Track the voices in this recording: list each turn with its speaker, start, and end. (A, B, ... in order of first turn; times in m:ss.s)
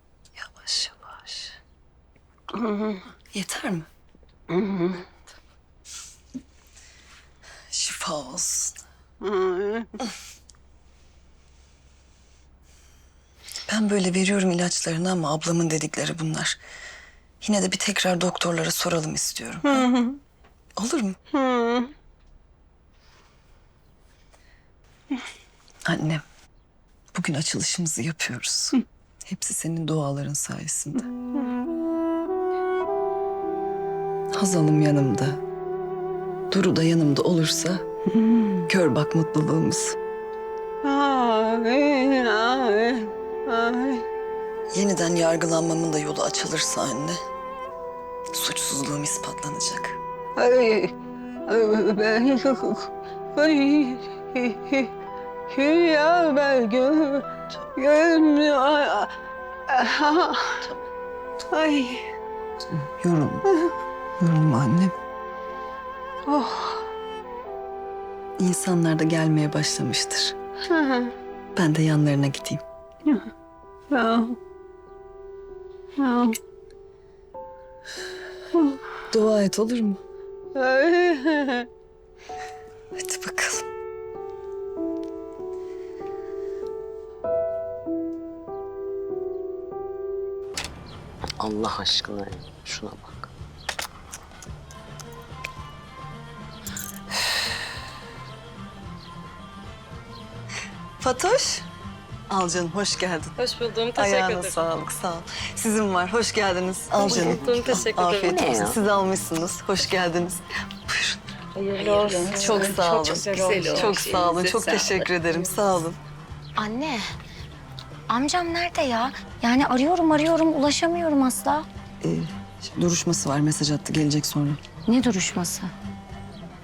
0:00.4-0:01.6 A
0:02.6-0:03.0 B
0:03.2-0:03.9 A
0:04.5-0:05.0 B
0:07.7-0:08.8 A
0:09.2-0:09.9 B
0:13.7-0:16.6 A
0:17.4-0:19.9 A
0:19.7-0:20.2 B
0:20.8-0:21.2 A
0:21.3-0:21.9 B
0:25.9-0:26.2 A
0:27.1-0:31.1 A
0:34.3-0:35.4 A
0:36.5-0:37.9 A
0:38.6-0:40.0 A
0:40.8-0:44.0 B
0:44.7-0:47.2 A
0:48.3-0:50.0 A
0:50.4-0:50.9 B
0:51.5-0:54.9 B
0:55.5-0:59.1 B
0:59.7-1:00.7 B
1:01.5-1:02.0 B
1:02.7-1:03.5 A
1:04.2-1:04.9 A
1:06.3-1:06.8 B
1:08.4-1:10.4 A
1:10.7-1:11.1 B
1:11.6-1:12.6 A
1:13.9-1:14.4 B
1:16.0-1:16.4 B
1:19.1-1:20.0 A
1:20.6-1:21.7 B
1:23.0-1:23.6 A
1:31.4-1:33.1 C
1:41.0-1:41.7 A
1:42.3-1:43.4 A
1:43.4-1:44.7 D
1:43.9-1:51.2 A
1:47.0-1:48.7 D
1:47.1-1:47.6 C
1:48.3-1:48.8 C
1:51.6-1:55.1 D
1:52.1-1:52.7 E
1:52.1-1:56.0 A
1:56.6-1:57.0 E
1:58.1-2:01.7 E
2:02.0-2:04.6 A
2:04.9-2:05.7 E